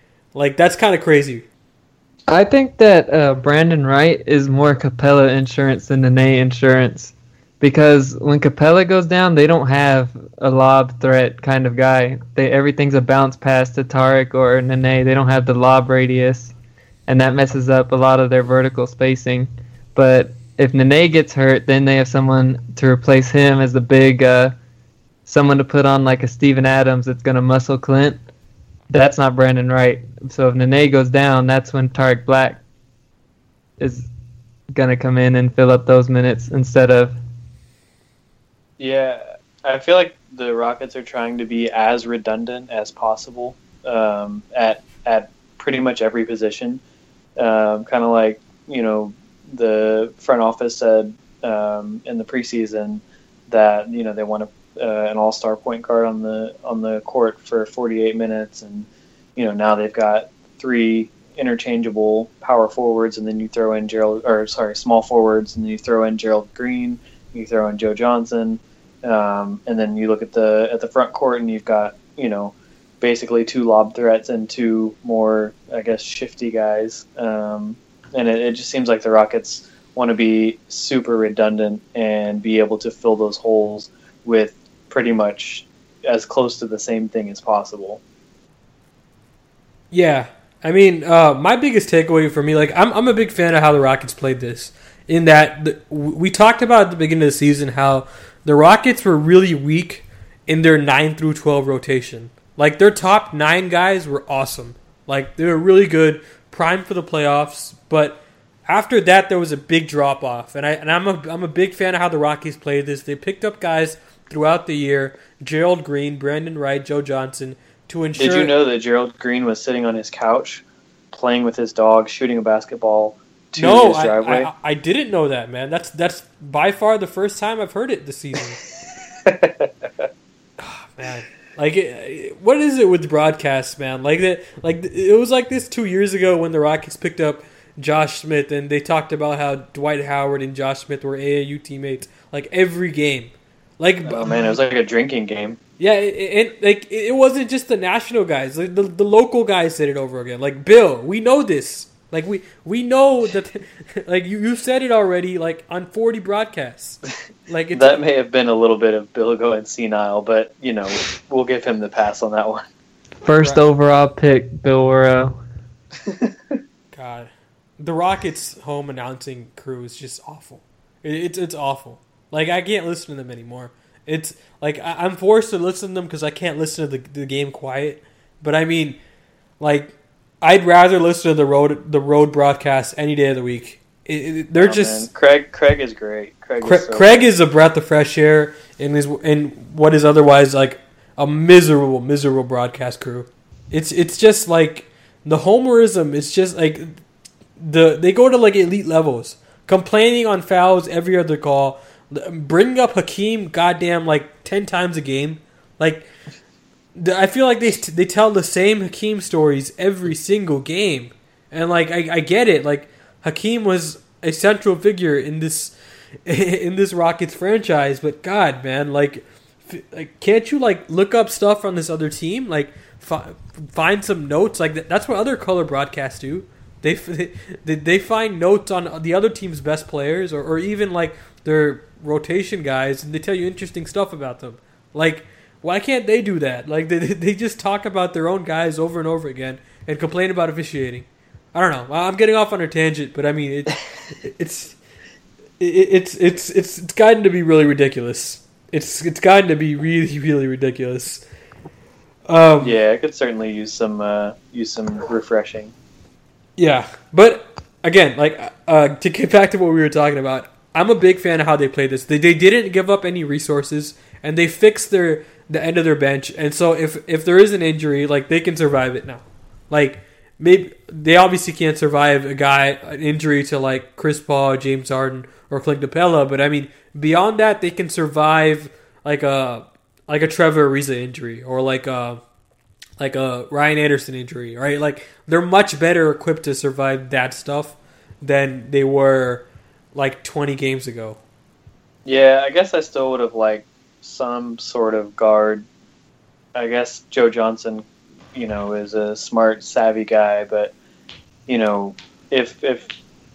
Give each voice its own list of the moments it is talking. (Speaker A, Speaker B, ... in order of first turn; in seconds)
Speaker A: 0.3-1.4, 89.9-118.5, 123.6-128.6, 130.6-144.4, 145.8-158.0, 166.9-179.0, 179.6-185.1, 186.6-197.0, 197.6-206.1, 206.9-215.7, 216.2-244.8, 245.6-251.2, 252.3-252.8, 256.6-282.2, 283.0-291.2
Speaker B: 2.3-16.5, 17.1-24.5, 25.2-28.2, 28.9-32.6, 33.8-34.1, 34.7-37.2, 163.2-165.4
Speaker C: 38.8-46.8, 47.4-88.0, 118.2-124.5, 129.2-129.7, 144.0-145.6, 157.7-162.6, 166.1-166.3, 184.6-187.2, 252.6-255.7, 292.1-295.6, 296.5-300.7, 301.5-302.9